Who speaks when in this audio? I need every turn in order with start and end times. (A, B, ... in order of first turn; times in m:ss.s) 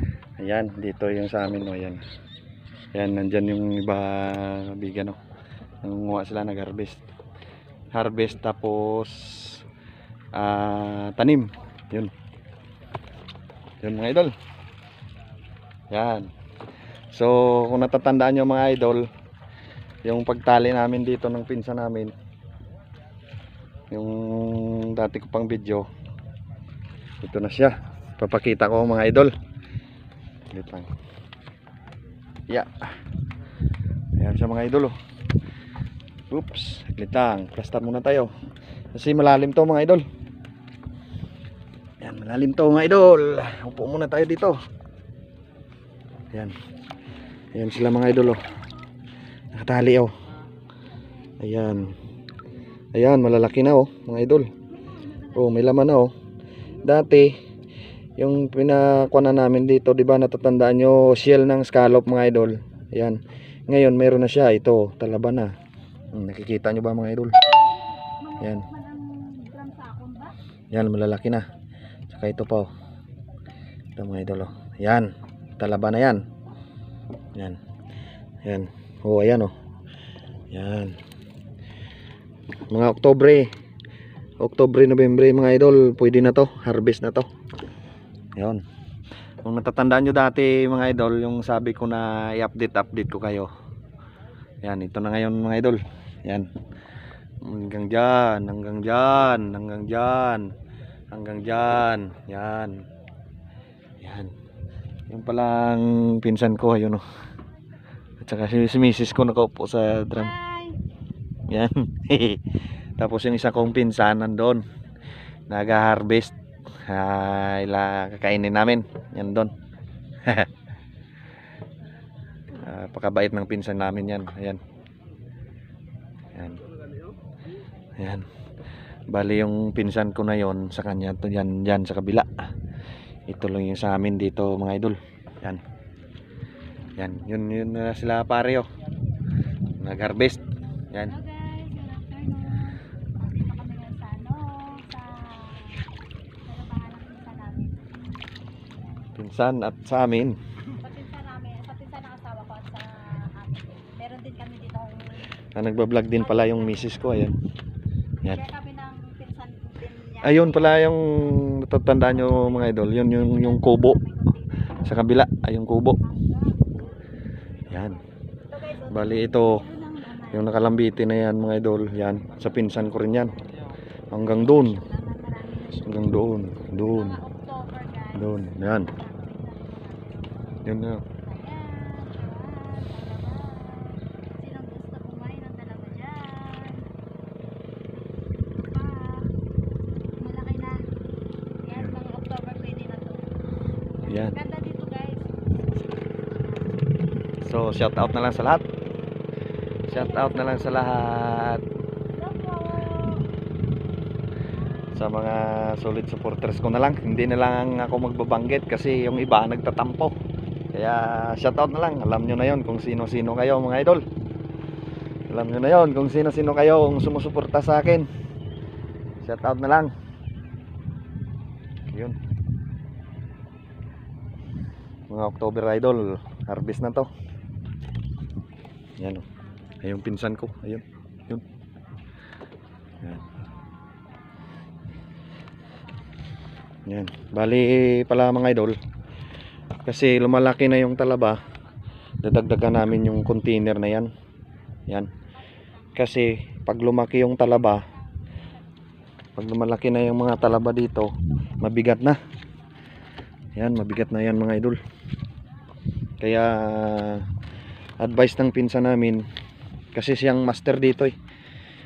0:00.4-0:02.0 A
0:02.9-0:05.2 A
0:05.8-0:07.0 A
0:07.9-0:09.6 A
0:10.3-0:12.1 A
0:13.8-0:14.3 A
0:15.9-0:16.3 A
0:17.1-0:19.1 A
0:20.0-0:22.1 A
0:23.9-0:25.9 A
0:27.2-0:29.3 A
0:30.5-0:30.9 A
0:32.5-0:33.0 A
0:34.2-0:35.0 A
0:36.3-0:38.3 A
0:38.9-0:40.0 A
0:42.0-0:44.6 A
0:47.5-0:48.5 A
0:49.5-0:50.1 A
0:51.4-0:52.0 A
0:52.9-0:54.5 A
0:54.9-0:55.3 B
0:55.3-0:56.1 A
0:56.8-0:57.4 A
0:58.2-1:05.5 A
1:06.1-1:07.4 A
1:07.5-1:10.3 B
1:08.4-1:08.7 A
1:10.7-1:11.5 A
1:12.1-1:12.7 A
1:14.0-1:16.2 A
1:18.4-1:19.5 A
1:20.5-1:21.0 A
1:22.7-1:23.5 A
1:24.4-1:27.3 A
1:28.4-1:28.6 A
1:29.4-1:33.5 A
1:34.6-1:36.5 A
1:37.4-1:40.5 A
1:41.1-1:42.8 A
1:44.0-1:44.3 A
1:45.1-1:47.0 A
1:48.2-1:50.4 A
1:50.2-1:50.8 B
1:51.5-1:54.6 A
1:55.5-1:59.5 A
2:00.2-2:00.5 A
2:02.5-2:04.6 A
2:06.3-2:06.6 A
2:08.0-2:08.3 A
2:09.1-2:12.5 A
2:13.3-2:15.6 A
2:17.0-2:18.7 A
2:19.8-2:21.2 A
2:21.0-2:25.9 B
2:26.4-2:27.8 B
2:29.1-2:30.4 A
2:30.8-2:35.3 B
2:35.5-2:37.4 A
2:36.2-2:37.0 B
2:38.3-2:40.9 B
2:40.2-2:44.0 A
2:42.2-2:44.6 B
2:44.8-2:46.0 A
2:46.0-2:46.8 B
2:47.7-2:50.4 B
2:47.7-2:48.0 A
2:48.8-2:49.7 A
2:50.3-2:53.4 A
2:54.1-2:54.8 A
2:54.6-2:55.9 B
2:55.8-2:57.2 A
2:56.7-3:00.6 B
2:58.1-2:58.9 A
3:00.6-3:01.0 A
3:01.2-3:06.9 B
3:08.6-3:09.3 B
3:10.2-3:10.8 B
3:11.6-3:13.2 B
3:14.0-3:15.3 B
3:14.0-3:14.4 A
3:15.9-3:16.4 B
3:17.4-3:18.6 A
3:19.9-3:20.8 B
3:19.9-3:21.6 A
3:22.2-3:23.2 B
3:24.9-3:30.1 A
3:30.7-3:34.0 A
3:35.3-3:38.1 A
3:39.2-3:39.9 A
3:41.9-3:42.2 A
3:45.1-3:47.1 A
3:49.0-3:49.2 A
3:49.8-3:51.4 A
3:53.0-3:53.3 A
3:55.7-3:56.1 B
3:56.8-3:58.8 A
3:59.8-4:01.4 A
4:02.2-4:04.1 A
4:05.9-4:07.8 A
4:09.4-4:12.2 A
4:13.5-4:14.8 A
4:16.2-4:17.3 A
4:18.0-4:19.2 A
4:19.9-4:21.2 A